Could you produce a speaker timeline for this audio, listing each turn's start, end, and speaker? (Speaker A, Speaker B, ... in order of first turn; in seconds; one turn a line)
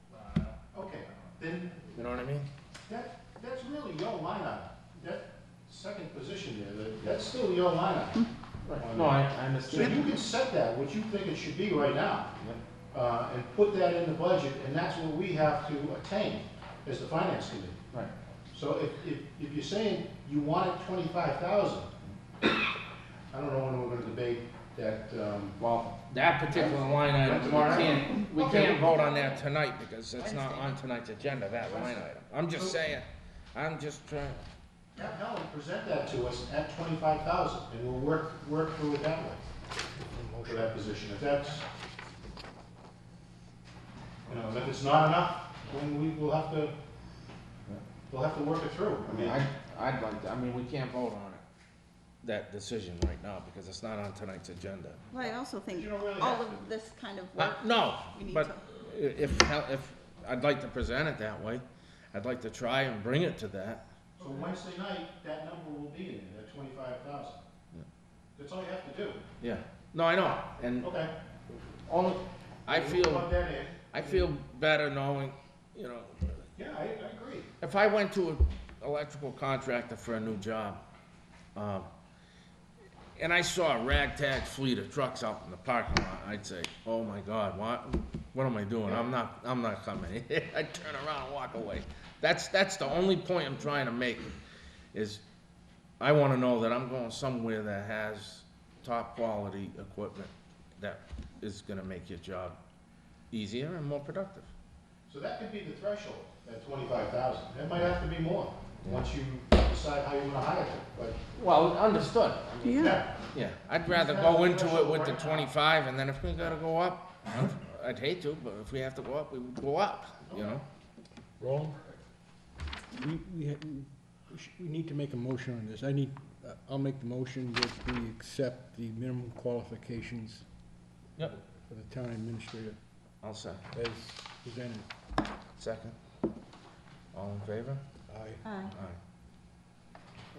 Speaker A: 0.1-1.9
Speaker B: 1.9-2.5
Speaker A: 2.9-8.2
Speaker B: 8.7-10.0
Speaker A: 8.8-12.3
Speaker C: 9.7-10.1
Speaker A: 12.9-17.8
Speaker A: 18.5-21.9
Speaker A: 23.3-25.6
Speaker B: 25.6-34.5
Speaker A: 26.5-29.0
Speaker C: 30.2-30.7
Speaker A: 31.6-32.8
Speaker A: 35.0-39.4
Speaker D: 39.9-40.9
Speaker A: 40.5-41.6
Speaker A: 44.3-46.7
Speaker A: 48.1-49.4
Speaker B: 49.1-51.4
Speaker B: 52.2-55.0
Speaker C: 55.1-58.6
Speaker A: 55.7-56.6
Speaker B: 57.4-63.8
Speaker A: 64.2-67.4
Speaker A: 68.3-69.2
Speaker B: 69.4-70.9
Speaker A: 70.8-71.1
Speaker B: 71.8-73.3
Speaker A: 72.7-74.3
Speaker B: 73.9-76.5
Speaker A: 76.6-77.5
Speaker B: 77.6-80.8
Speaker B: 81.5-81.9
Speaker B: 83.2-94.3
Speaker B: 94.9-95.2
Speaker B: 96.0-102.6
Speaker B: 103.3-104.5
Speaker A: 105.1-111.2
Speaker B: 111.3-120.6
Speaker C: 112.6-113.0
Speaker A: 112.8-113.1
Speaker A: 113.9-115.5
Speaker A: 120.3-120.6
Speaker D: 121.4-121.8
Speaker D: 122.9-130.4
Speaker D: 131.5-132.8
Speaker B: 133.2-133.6
Speaker D: 133.7-134.9
Speaker B: 135.6-136.0
Speaker B: 137.1-137.8
Speaker D: 138.1-138.4
Speaker C: 138.4-138.7
Speaker B: 138.7-139.0